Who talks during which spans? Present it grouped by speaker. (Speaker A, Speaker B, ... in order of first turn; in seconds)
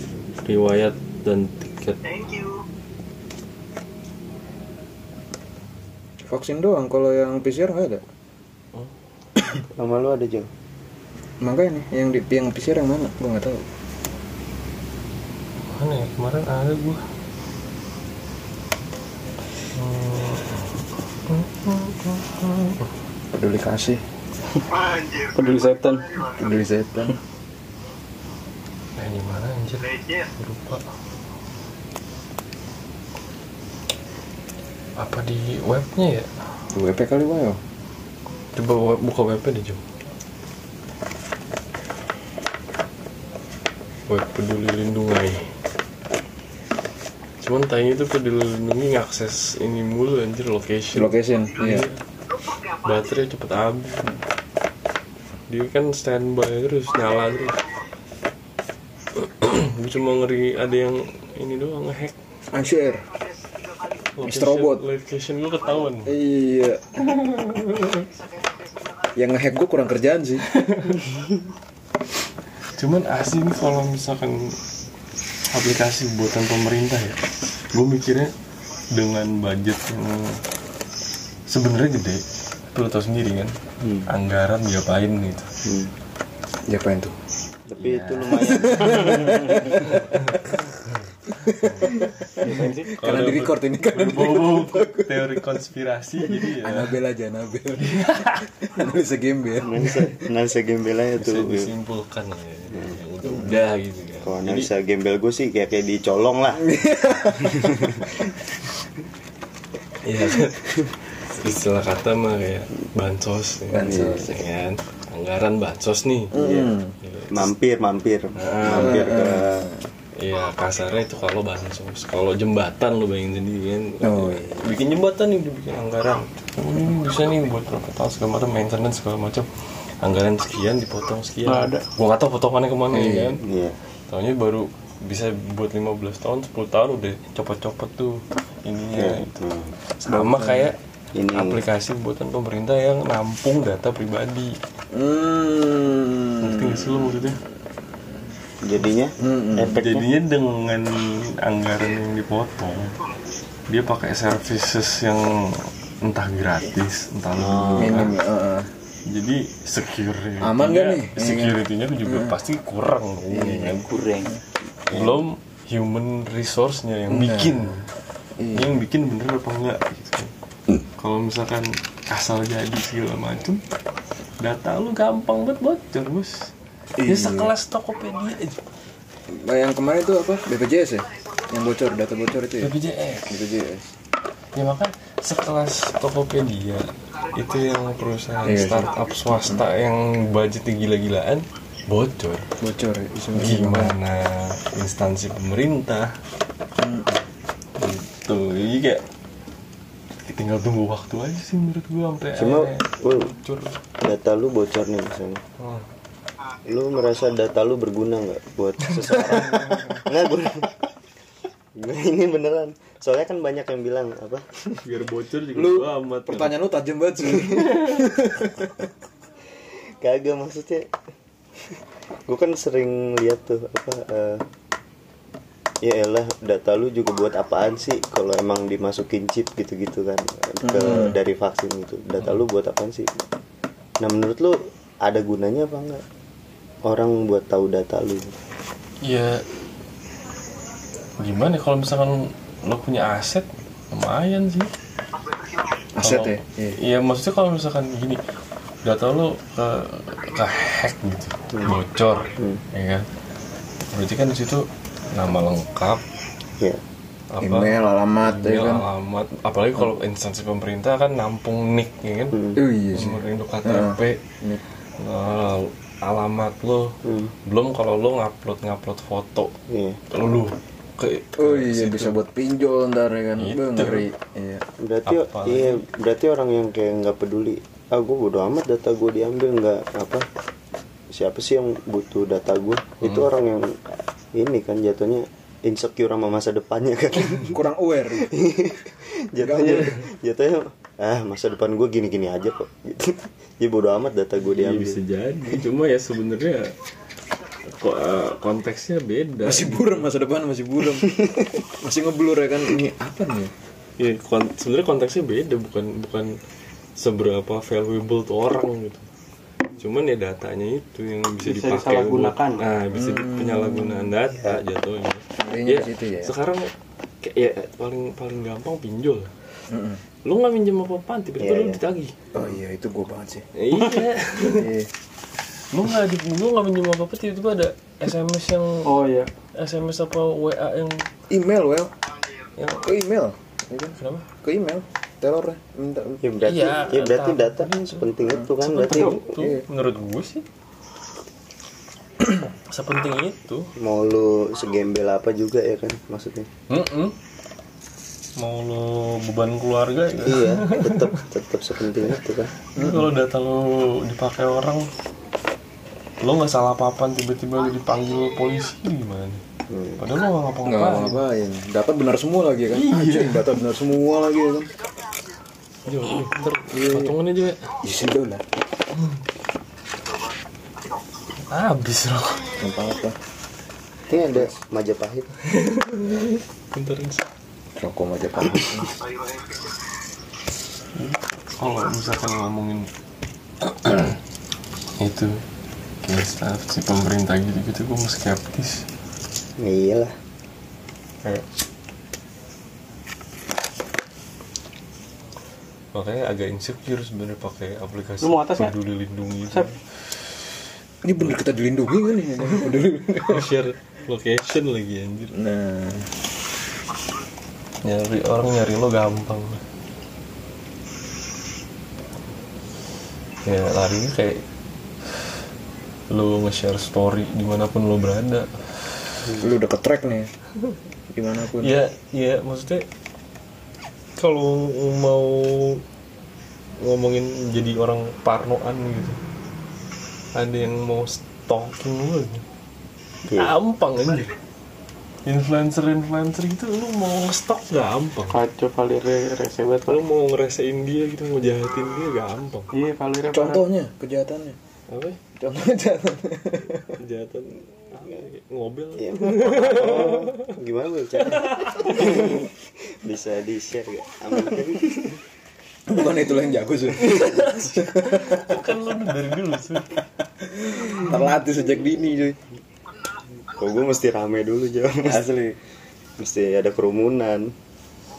Speaker A: 0.4-2.2, 15.7-17.0, 19.7-20.7, 21.2-22.9, 29.0-30.8, 35.0-36.3, 38.5-39.8, 44.1-45.5, 47.4-52.0, 52.7-54.1, 55.5-57.6, 59.1-62.1, 64.2-66.1, 67.1-68.1, 70.5-71.0, 72.8-74.6, 75.5-78.3, 78.9-80.4, 81.5-83.5, 84.1-85.5, 87.8-88.4, 89.8-97.0, 97.8-98.5, 101.2-104.7, 110.0-116.3, 117.0-117.5, 118.3-119.1, 120.2-129.5, 130.0-133.4, 134.1-139.4, 140.0-140.8, 141.3-144.6, 146.4-147.4, 149.8-153.0, 153.7-158.2, 159.1-164.3, 164.9-167.9, 168.5-170.3, 170.9-173.6, 174.4-178.6, 182.6-183.3, 184.6-192.5, 193.3-196.1, 197.8-199.0, 200.2-203.8, 205.6-205.8, 209.3-210.0, 214.8-216.6, 239.0-239.4, 241.2-244.7, 246.0-248.2, 248.8-253.1, 253.9-256.0, 257.3-262.4, 262.9-264.2, 265.0-269.5, 270.1-272.2, 273.4-274.1, 275.1-275.8, 294.5-296.7, 297.7-299.9, 304.0-306.4, 307.0-309.1, 309.8-316.7, 317.2-319.3, 320.2-322.1, 323.5-324.7, 325.7-328.9, 329.5-331.1, 332.6-332.9, 333.9-334.3, 336.4-340.4, 342.4-343.7, 346.7-347.1, 348.4-351.1, 352.7-354.9, 356.2-359.4, 360.0-361.2, 362.7-363.5, 365.9-367.7, 368.9-369.2, 371.5-372.6, 375.4-377.2, 380.9-382.9, 383.6-384.2, 385.0-385.4, 386.0-388.9, 395.9-399.8, 403.2-405.3, 407.8-409.6, 413.4-414.4, 416.1-418.6, 421.6-422.9, 424.2-425.8, 426.8-429.2, 430.3-432.4, 433.3-434.4, 435.2-438.4, 439.9-442.7, 444.9-445.2, 447.0-450.5, 451.2-452.4, 457.0-460.0
Speaker B: 6.2-8.0, 11.4-13.6, 23.3-24.0, 26.3-27.2, 36.7-37.6, 50.9-51.9, 62.5-63.0, 64.2-64.8, 66.0-67.1, 69.1-70.5, 86.7-87.2, 88.3-90.7, 91.3-95.5, 96.3-100.2, 106.5-108.3, 113.7-114.3, 116.3-116.9, 118.7-119.9, 124.0-124.7, 132.9-133.4, 140.1-140.7, 144.9-147.2, 149.2-149.8, 157.8-158.7, 160.4-162.3, 163.3-164.4, 167.1-167.6, 168.4-168.8, 177.0-177.5, 179.3-182.7, 183.3-183.9, 188.4-189.6, 192.6-193.9, 196.8-197.2, 209.3-209.9, 215.5-218.9, 230.6-231.2, 245.9-246.8, 257.4-258.9, 262.5-264.6, 271.4-274.6, 287.3-288.4, 289.4-290.0, 299.4-303.5, 312.9-314.1, 315.4-316.3, 319.7-320.0, 322.3-323.4, 324.5-324.9, 331.3-331.9, 332.8-336.2, 339.3-339.6, 352.8-353.1, 360.6-364.7, 366.7-367.1, 367.8-368.4, 372.6-373.1, 377.8-378.9, 401.0-403.5, 405.3-406.1, 419.4-420.3, 421.1-421.7, 443.3-444.6, 445.4-447.0, 455.9-458.7, 460.3-462.4, 465.0-465.6
Speaker C: 9.8-10.5, 83.8-84.1, 85.6-85.9, 87.7-89.8, 99.6-101.7, 102.7-103.0, 104.2-106.7, 107.4-108.1, 113.9-114.2, 116.3-116.7, 117.3-119.7, 133.4-133.8, 138.9-139.8, 141.1-141.6, 148.6-150.1, 157.3-158.1, 164.9-165.2, 202.3-203.3, 204.0-205.4, 206.7-210.8, 211.7-214.4, 217.3-217.7, 220.0-220.9, 222.2-224.4, 225.8-233.1, 234.0-236.0, 236.8-238.3, 262.3-262.6, 267.0-267.3, 269.7-270.0, 274.8-280.3, 281.1-287.6, 288.1-295.0, 314.3-314.6, 321.4-321.8, 336.2-339.3, 343.8-346.5, 350.2-352.5, 359.7-360.0, 374.1-375.3, 389.6-390.1, 449.0-455.2, 463.5-465.2, 466.2-467.5
Speaker D: 25.1-26.3, 92.4-92.9, 131.4-131.8, 311.4-312.6, 328.8-329.3, 398.2-398.7, 438.3-440.0, 442.7-443.6